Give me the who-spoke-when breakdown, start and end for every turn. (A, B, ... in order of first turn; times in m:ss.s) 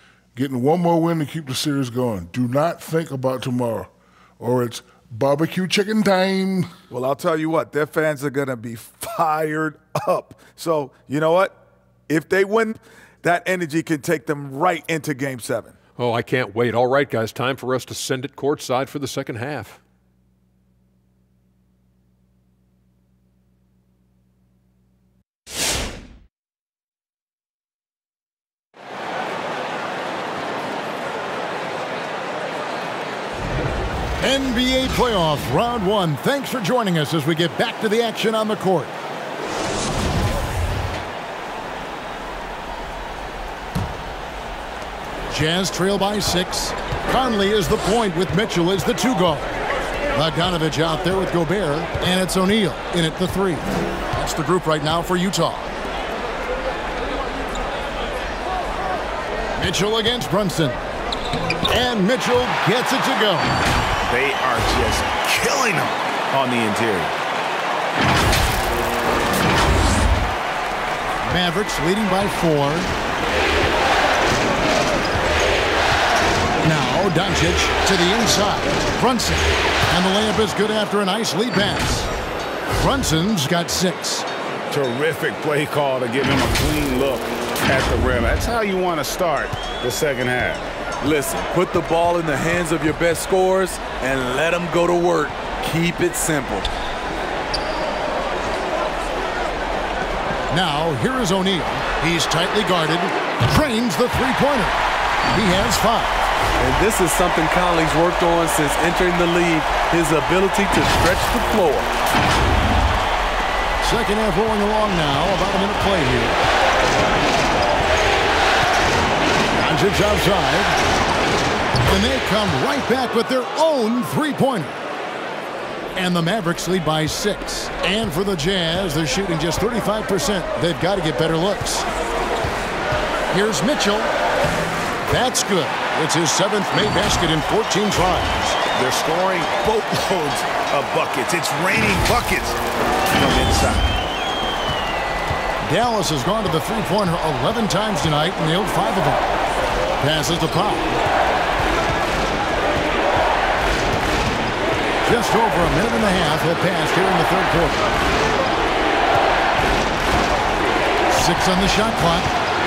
0:00.4-0:06.7 A
0:06.9-0:11.6 B
0:12.1-0:15.8 B
0:16.0-0:19.8 C
0:34.2-0:38.9 D
0:45.3-0:49.5 D
0:50.1-0:55.7 D
0:59.6-1:00.8 D
1:01.7-1:03.5 D
1:04.1-1:07.2 E
1:11.2-1:12.9 D
1:16.6-1:22.1 D
1:22.8-1:24.3 D
1:24.7-1:30.7 E
1:31.0-1:36.7 F
1:40.5-1:46.2 D
1:46.6-1:51.9 F
1:53.8-1:56.4 D
1:59.6-2:00.8 D
2:01.8-2:04.8 D
2:06.0-2:11.9 D
2:13.3-2:14.1 D
2:15.1-2:18.6 D
2:18.8-2:22.6 E
2:23.1-2:24.0 E
2:25.6-2:29.3 D
2:30.0-2:31.0 D
2:35.0-2:37.9 D
2:41.1-2:42.3 D